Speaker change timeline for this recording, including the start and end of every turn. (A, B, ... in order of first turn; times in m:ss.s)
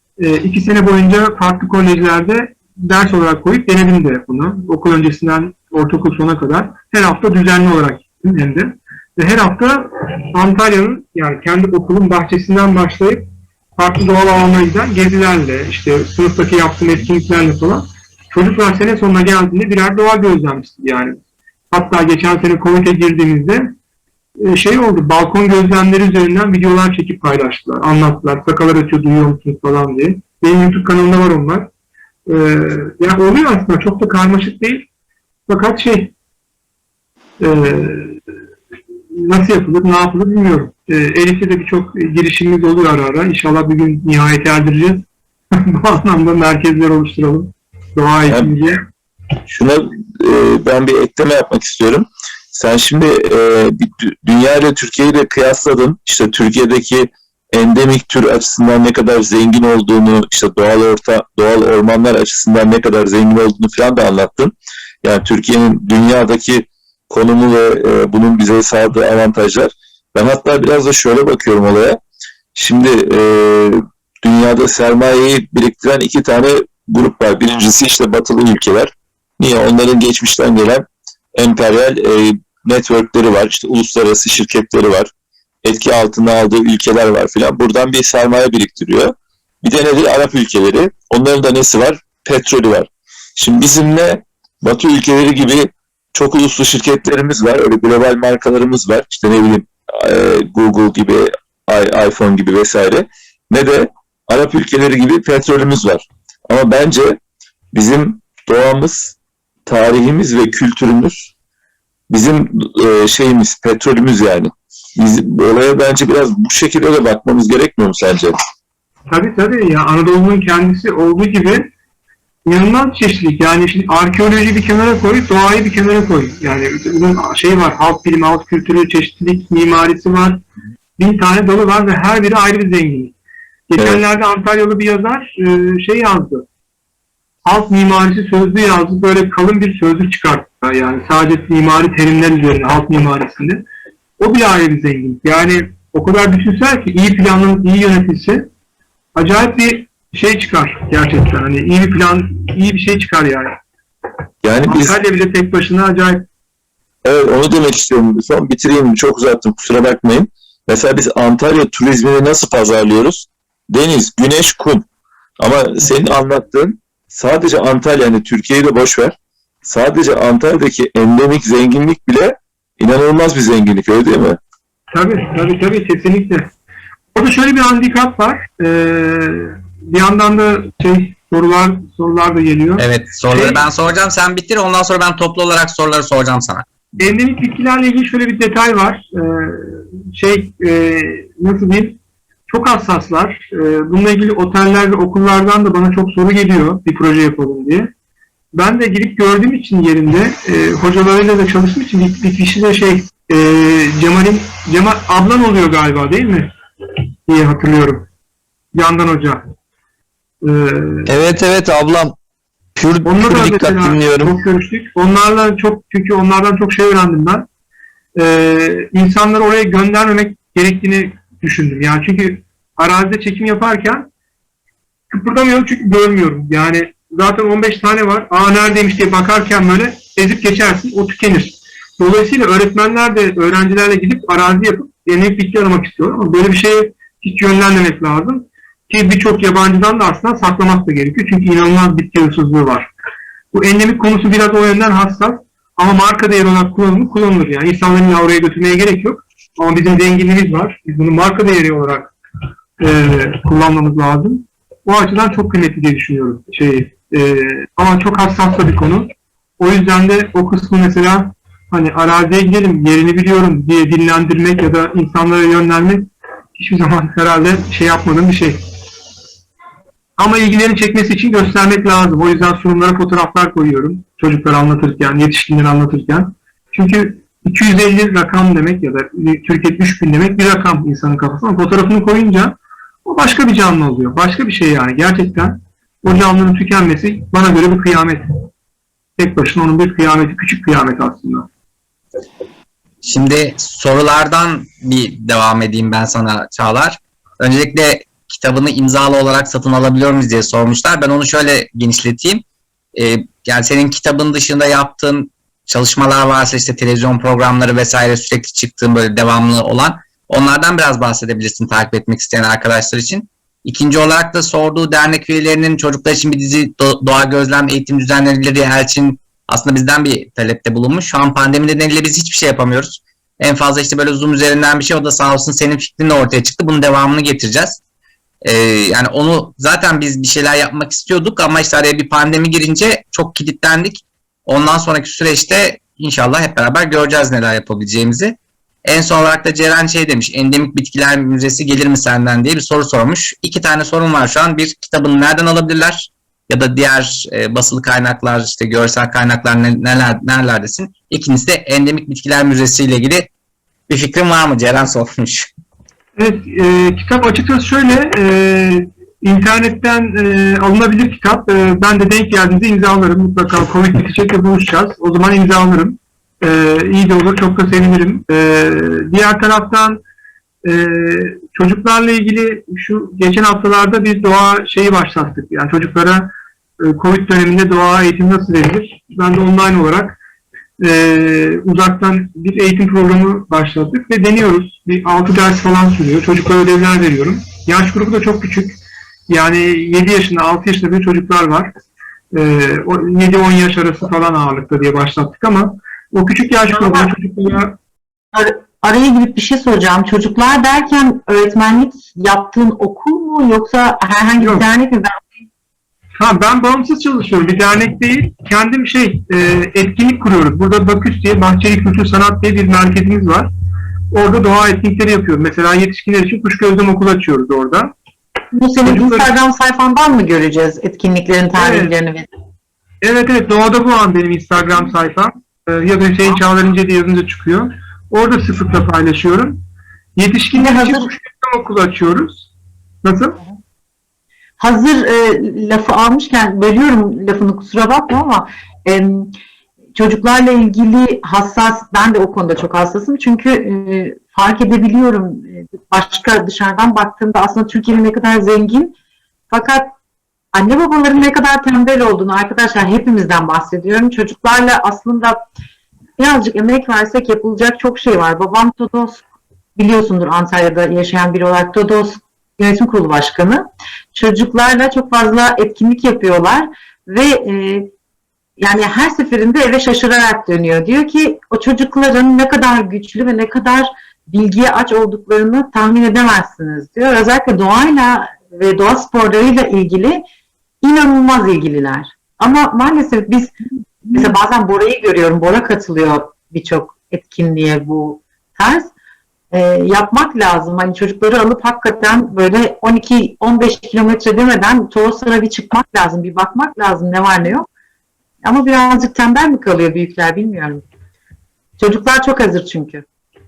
0:00.2-0:23.7 A
0:24.4-0:31.7 A
0:32.3-0:34.9 A
0:35.5-0:36.1 A
0:37.4-0:38.2 A
0:39.1-0:48.9 A
0:48.3-0:48.6 B
0:49.5-1:12.0 B
1:12.6-1:25.1 B
1:25.6-1:47.2 B
1:47.7-1:49.1 B
1:49.7-1:51.3 B
1:52.1-1:58.4 B
1:59.1-2:01.7 A
2:02.5-2:10.4 A
2:11.0-2:13.1 A
2:13.7-2:16.5 A
2:13.8-2:14.0 B
2:17.4-2:23.6 A
2:24.2-2:28.5 A
2:29.2-2:33.6 A
2:34.4-2:35.0 B
2:34.7-2:36.2 A
2:37.0-2:44.9 B
2:45.4-2:54.4 B
2:54.9-2:56.5 A
2:57.1-3:03.6 A
3:02.8-3:06.6 C
3:07.0-3:17.9 A
3:18.5-3:26.5 A
3:27.3-3:28.1 A
3:28.7-3:29.4 A
3:30.4-3:31.1 A
3:31.1-3:32.2 D
3:32.8-3:34.4 D
3:33.0-3:37.5 A
3:38.1-3:44.1 A
3:45.1-4:02.9 A
4:03.5-4:12.1 A
4:12.8-4:28.6 A
4:30.2-4:48.2 A
4:49.2-4:51.5 A
4:53.0-5:27.8 C
5:28.4-5:53.3 C
5:53.9-5:55.5 C
5:56.2-6:10.0 A
6:10.6-6:20.2 A
6:20.8-6:28.8 A
6:29.3-6:31.7 A
6:32.3-6:37.8 A
6:36.8-6:37.1 E
6:38.3-6:45.3 E
6:44.4-6:44.6 A
6:46.2-6:53.5 A
6:54.1-6:57.9 A
6:58.5-7:02.3 E
6:58.8-6:59.3 A
7:01.5-7:01.9 A
7:03.0-7:09.6 A
7:10.2-7:12.5 A
7:10.6-7:11.1 E
7:13.0-7:13.4 A
7:14.6-7:19.4 E
7:20.0-7:29.0 E
7:29.5-7:29.9 E
7:30.5-7:35.4 E
7:36.2-7:47.9 E
7:48.6-8:00.2 E
8:00.8-8:03.6 E
8:04.1-8:08.9 E
8:09.5-8:17.7 E
8:18.4-8:20.8 E
8:21.8-8:23.0 E